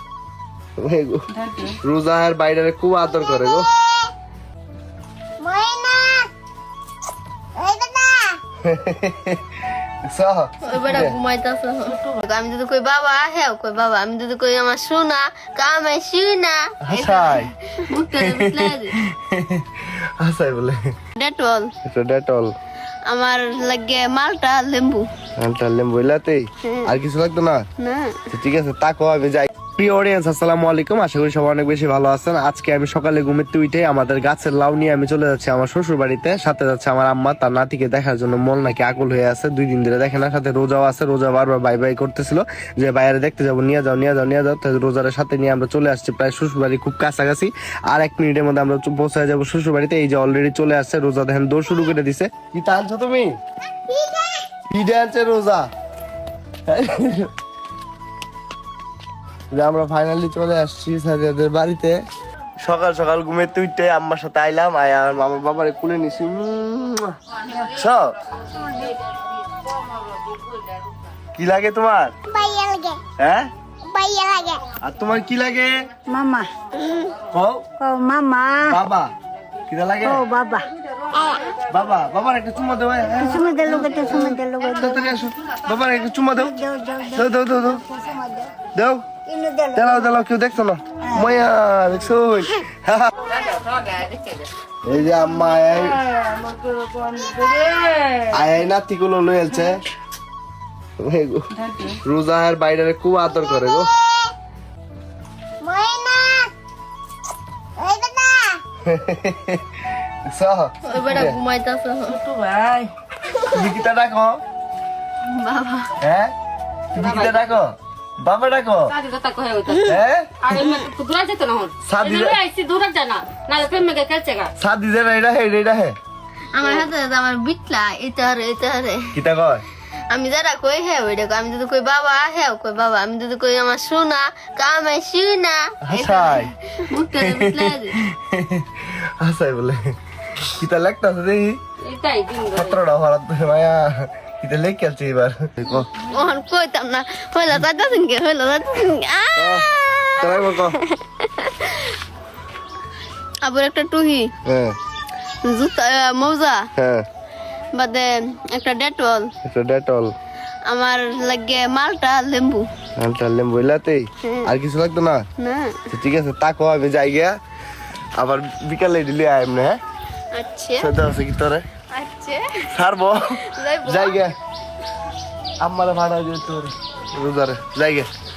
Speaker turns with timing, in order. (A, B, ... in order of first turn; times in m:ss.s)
0:00.8-0:03.7 A
0:03.1-0:04.1 B
0:05.4-0:06.3 B
0:07.6-0:08.4 B
0:08.6-0:09.4 A
0:10.1-0:11.2 A
0:10.6-0:19.0 C
0:16.8-0:17.5 A
0:18.1-0:20.9 A
0:21.2-0:21.7 C
0:21.8-0:22.5 A
0:23.1-0:25.1 C
0:25.4-0:27.6 A
0:26.6-0:26.9 C
0:27.8-0:28.2 C
0:28.3-0:53.4 A
0:53.9-0:54.5 B
0:54.7-0:55.7 A
0:56.7-0:57.3 A
0:59.5-1:02.0 A
1:02.6-1:08.1 A
1:11.4-1:12.2 A
1:12.3-1:13.0 B
1:13.2-1:13.5 A
1:13.8-1:14.7 B
1:14.8-1:15.8 A
1:16.1-1:16.5 D
1:16.8-1:17.1 B
1:17.3-1:17.6 A
1:17.8-1:18.7 D
1:18.6-1:19.1 A
1:19.7-1:20.2 A
1:20.0-1:20.7 D
1:21.2-1:21.5 B
1:21.6-1:26.6 A
1:23.2-1:25.0 D
1:26.5-1:27.1 D
1:27.2-1:27.8 A
1:27.9-1:28.5 D
1:28.7-1:29.1 A
1:29.3-1:29.8 D
1:29.7-1:33.1 A
1:33.7-1:34.4 E
1:34.8-1:36.0 A
1:36.9-1:38.1 E
1:38.3-1:39.8 A
1:41.0-1:43.9 A
1:43.4-1:44.3 B
1:45.6-1:46.5 B
1:47.8-1:48.6 B
1:48.9-1:49.6 A
1:50.3-1:51.4 A
1:50.8-1:52.3 C
1:52.3-1:52.9 E
1:53.5-1:54.4 A
1:55.2-1:55.9 C
1:56.0-1:56.3 A
1:56.9-1:58.9 A
1:57.0-1:57.6 E
1:58.9-2:04.5 E
1:59.8-2:00.3 A
2:01.8-2:02.4 A
2:04.6-2:06.0 A
2:06.5-2:09.2 C
2:09.1-2:09.6 A
2:10.1-2:18.0 C
2:15.8-2:16.5 A
2:17.2-2:21.6 A
2:21.8-2:22.8 E
2:22.5-2:25.9 A
2:26.0-2:32.0 C
2:29.4-2:30.8 A
2:33.4-2:34.3 C
2:34.4-2:34.8 A
2:35.4-2:36.7 C
2:36.8-2:37.1 A
2:37.8-2:39.3 C
2:39.4-2:40.1 A
2:40.7-2:42.7 C
2:43.0-2:45.2 A
2:44.2-2:44.5 C
2:45.4-2:45.8 C
2:45.9-2:47.4 A
2:48.2-2:49.8 A
2:50.3-2:50.9 C
2:50.8-2:51.6 A
2:51.9-2:52.8 C
2:52.7-2:53.2 A
2:53.4-2:54.2 C
2:53.8-2:54.3 A
2:55.6-2:58.1 A